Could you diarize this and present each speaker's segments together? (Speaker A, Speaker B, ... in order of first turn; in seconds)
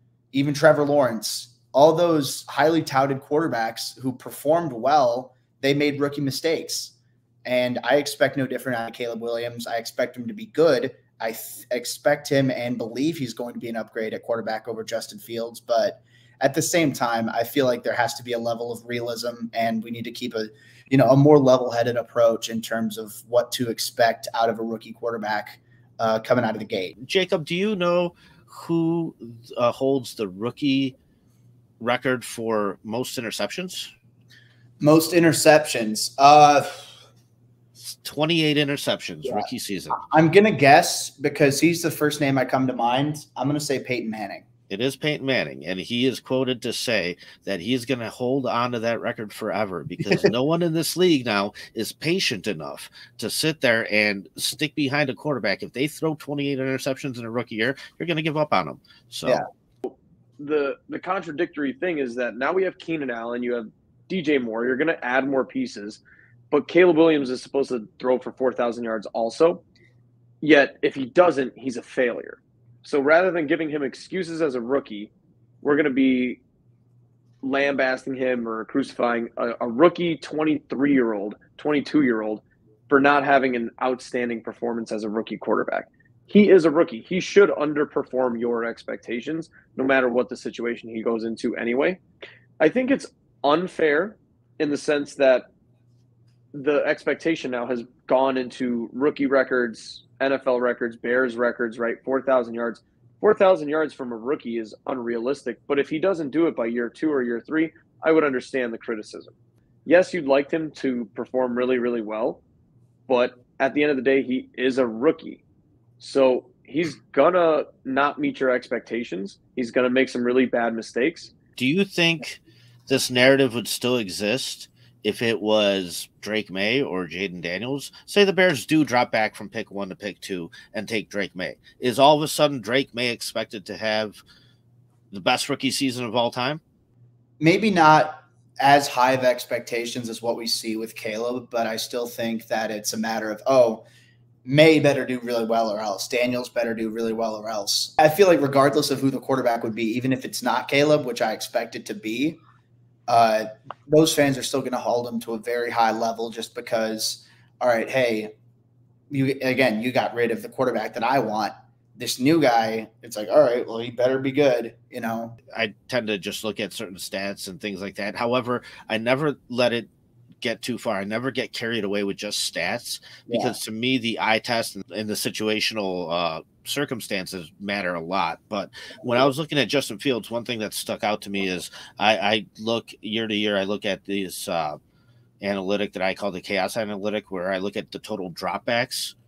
Speaker A: 0.3-26.9, 34.8-36.9, 39.2-44.5, 137.4-143.9, 144.4-152.4, 153.1-158.3, 159.1-165.4, 173.3-173.6
Speaker B: 27.0-31.0, 31.8-33.9, 37.8-40.0, 44.7-59.5, 121.6-134.2, 135.1-136.6, 165.5-169.9, 170.4-184.8, 185.4-189.2
Speaker C: 59.9-66.0, 66.5-69.6, 70.4-75.1, 75.6-76.4, 77.4-92.0, 92.6-95.5, 96.5-109.3, 109.9-112.4, 113.1-115.4, 116.0-121.3